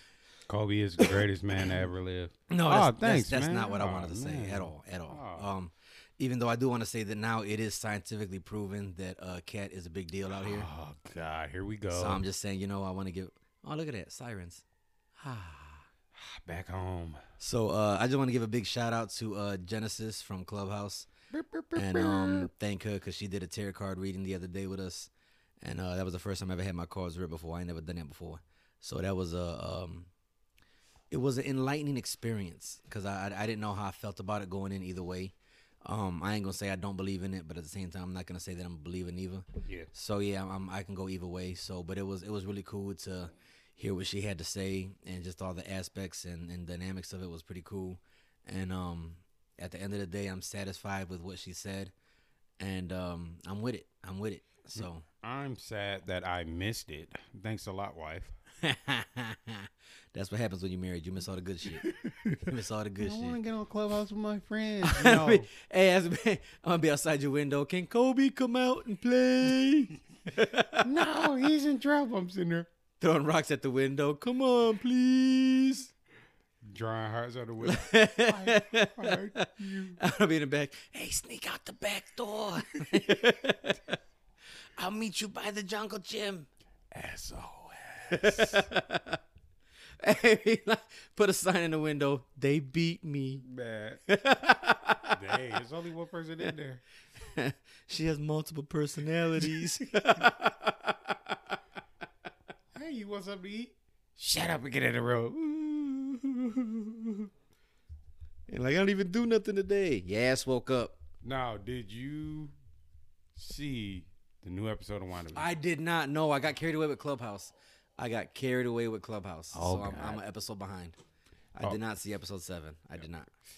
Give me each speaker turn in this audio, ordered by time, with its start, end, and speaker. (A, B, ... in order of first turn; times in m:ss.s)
0:00.5-0:05.5 A
0:01.0-0:01.8 B
0:02.5-0:10.7 B
0:10.3-0:12.2 A
0:11.9-0:14.6 B
0:15.2-0:15.9 B
0:16.1-0:17.2 A
0:17.4-0:21.1 B
0:21.3-0:22.5 A
0:21.8-0:30.1 B
0:31.1-0:51.9 B
0:39.6-0:39.9 A
0:52.6-0:55.1 B
0:54.8-0:58.3 A
0:58.6-1:01.9 B
1:01.8-1:05.5 A
1:02.4-1:03.4 B
1:04.8-1:10.9 B
1:10.8-1:12.7 A
1:13.0-1:15.9 B
1:16.6-1:20.0 A
1:17.6-1:24.0 B
1:24.8-1:26.5 B
1:26.9-1:28.7 A
1:28.1-1:29.2 B
1:30.0-1:33.4 B
1:33.4-1:34.0 A
1:34.1-1:35.2 B
1:35.1-1:36.8 A
1:37.2-1:41.5 B
1:39.4-1:39.7 A
1:42.7-1:46.7 A
1:48.5-1:51.0 B
1:51.2-1:52.6 A
1:53.4-1:55.5 A
1:55.3-2:01.0 B
1:59.5-2:00.2 A
2:01.6-2:03.3 B